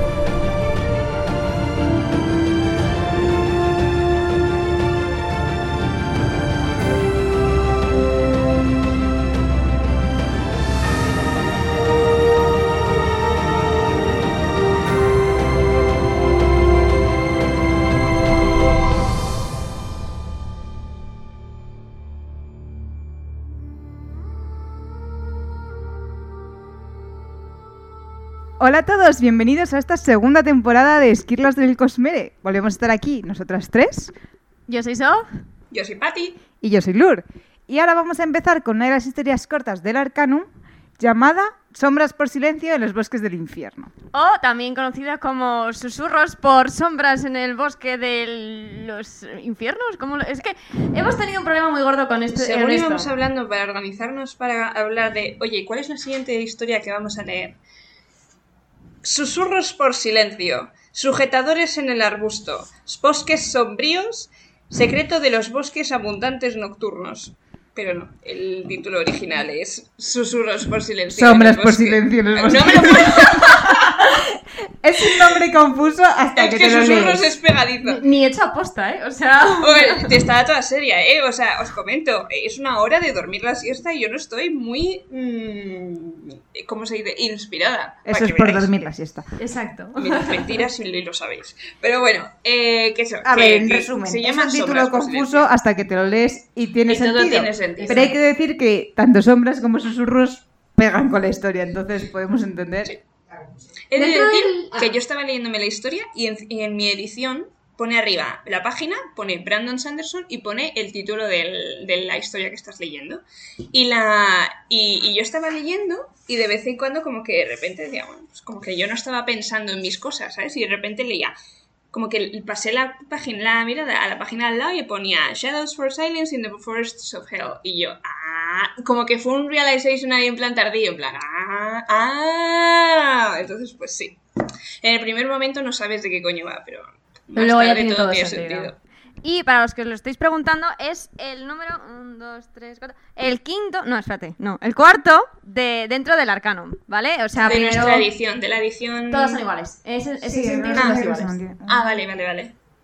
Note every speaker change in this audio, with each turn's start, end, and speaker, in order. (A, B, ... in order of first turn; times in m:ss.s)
0:28.6-0:34.1 A
0:34.7-0:35.3 B
0:35.7-0:36.4 C
0:36.6-0:40.5 A
0:41.0-0:43.9 A
0:44.1-0:53.1 B
0:52.3-0:57.6 C
0:59.0-1:14.0 C
1:11.1-1:14.2 A
1:14.8-1:17.3 A
1:16.4-1:18.0 C
1:17.8-1:20.1 B
1:19.6-1:28.7 C
1:28.1-1:29.3 A
1:29.4-1:30.6 B
1:30.0-1:35.5 C
1:33.2-1:42.9 A
1:36.9-1:38.1 C
1:37.8-1:38.1 B
1:43.9-2:01.4 C
1:44.0-1:44.9 B
2:01.9-2:14.2 C
2:14.8-2:18.8 C
2:17.4-2:18.7 B
2:19.2-2:28.1 B
2:27.5-2:29.4 C
2:29.1-2:31.4 B
2:30.2-2:31.9 A
2:30.7-2:32.5 C